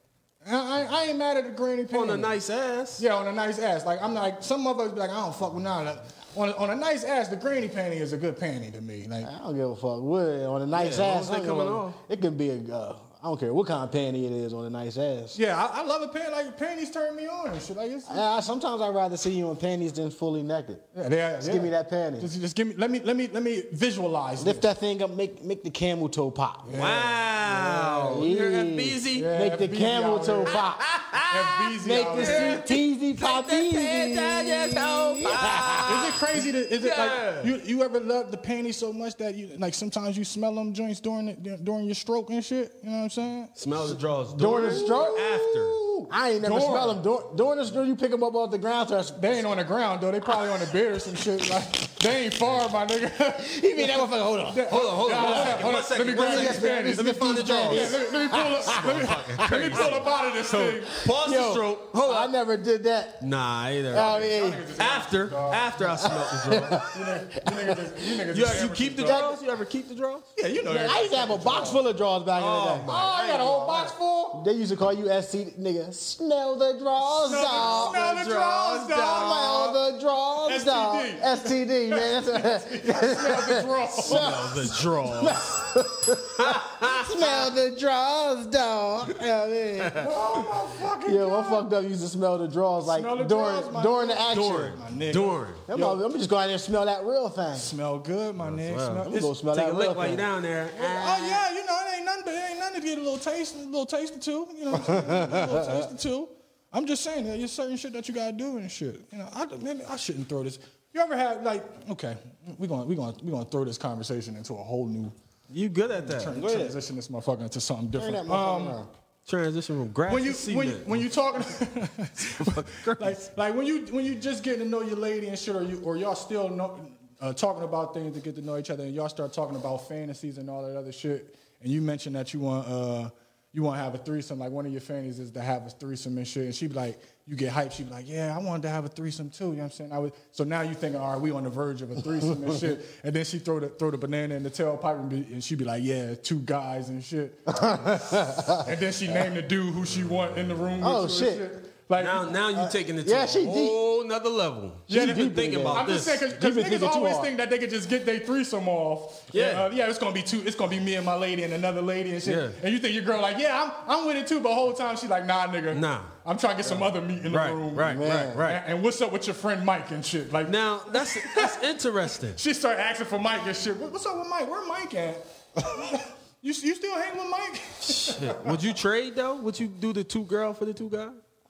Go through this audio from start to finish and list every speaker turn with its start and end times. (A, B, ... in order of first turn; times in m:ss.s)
0:00.4-0:02.3 A
0:01.9-0:03.0 B
0:03.0-0:09.3 A
0:09.2-0:15.4 C
0:10.7-0:12.0 B
0:15.3-0:18.2 A
0:18.1-0:20.9 C
0:20.9-0:24.7 A
0:21.4-0:22.3 C
0:24.4-0:26.8 C
0:26.6-0:27.2 A
0:26.7-0:29.3 B
0:27.5-0:30.9 C
0:29.1-0:30.6 A
0:30.5-0:31.5 B
0:31.3-0:32.6 A
0:31.8-0:36.1 C
0:32.1-0:36.2 B
0:35.8-0:43.5 A
0:36.8-0:37.5 B
0:43.6-0:45.8 B
0:44.3-0:45.5 C
0:44.6-0:47.0 A
0:46.1-0:49.4 C
0:49.2-1:00.9 A
0:53.4-1:00.0 C
0:54.7-0:58.0 B
0:58.7-1:02.3 B
1:01.0-1:03.2 C
1:03.2-1:06.8 B
1:03.9-1:04.7 C
1:04.0-1:06.1 A
1:05.9-1:09.4 C
1:06.8-1:09.2 A
1:08.3-1:10.3 B
1:10.4-1:11.8 A
1:10.6-1:12.9 C
1:12.4-1:13.9 B
1:12.9-1:14.4 A
1:14.3-1:30.1 C
1:17.1-1:19.8 A
1:17.3-1:19.1 B
1:20.4-1:24.4 A
1:24.0-1:25.5 B
1:26.4-1:27.5 B
1:29.8-1:30.1 B
1:30.0-1:31.7 A
1:31.0-1:34.8 C
1:32.8-1:36.0 A
1:35.1-1:35.6 B
1:35.7-1:37.7 C
1:37.6-1:39.3 A
1:38.4-1:41.4 B
1:39.1-1:40.3 C
1:40.7-1:55.1 A
1:44.8-1:45.9 C
1:55.5-1:56.4 B
1:56.0-1:58.8 A
1:56.3-1:56.8 C
1:57.9-1:58.9 C
1:59.2-2:01.1 B
2:00.1-2:32.4 A
2:02.2-2:03.2 B
2:22.3-2:22.7 C
2:27.5-2:28.6 C
2:30.8-2:31.5 C
2:32.0-2:36.2 B
2:32.5-2:33.8 C
2:34.9-2:37.3 C
2:34.9-2:51.6 A
2:39.3-2:39.7 B
2:42.2-2:42.6 B
2:45.7-2:46.1 B
2:47.3-2:48.6 B
2:47.8-2:48.5 C
2:50.4-2:52.4 B
2:52.4-2:58.5 A
2:57.8-3:01.2 B